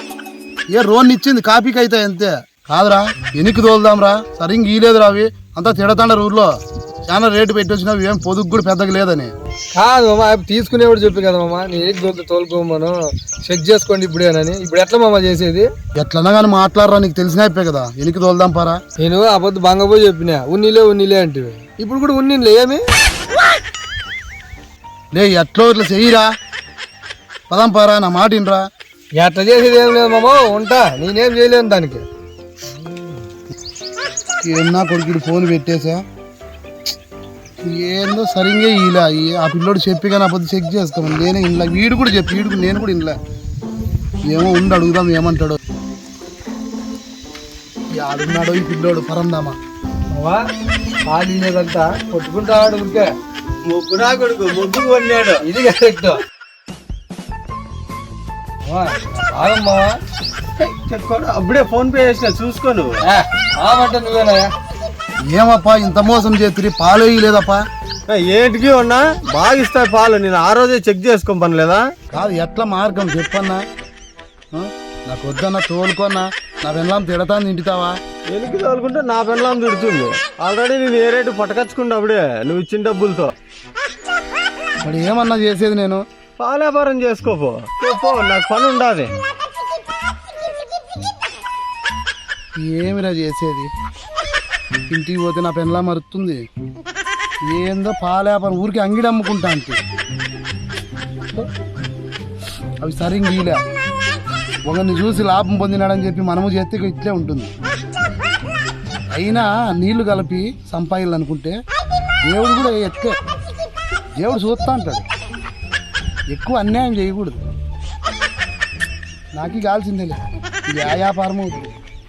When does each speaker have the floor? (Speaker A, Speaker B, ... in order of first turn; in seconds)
Speaker A: 0.7-6.5, 7.0-9.3, 16.0-18.8, 25.1-26.3, 27.5-28.6, 34.4-36.0, 37.6-43.2, 44.2-45.6, 47.9-49.6, 65.3-67.6, 72.1-73.6, 74.5-78.0, 84.8-86.0, 92.6-93.7, 94.9-96.4, 97.5-99.8, 102.8-103.6, 104.7-107.5, 109.1-111.6, 112.2-113.1, 114.2-115.0, 116.3-117.4, 119.3-121.8
Speaker B: 9.7-15.7, 19.0-22.8, 29.2-32.0, 50.1-50.4, 51.1-53.1, 55.4-56.2, 58.6-60.0, 63.0-64.5
Speaker C: 53.6-55.4, 60.6-63.0, 68.1-71.8, 78.3-83.3, 86.4-89.1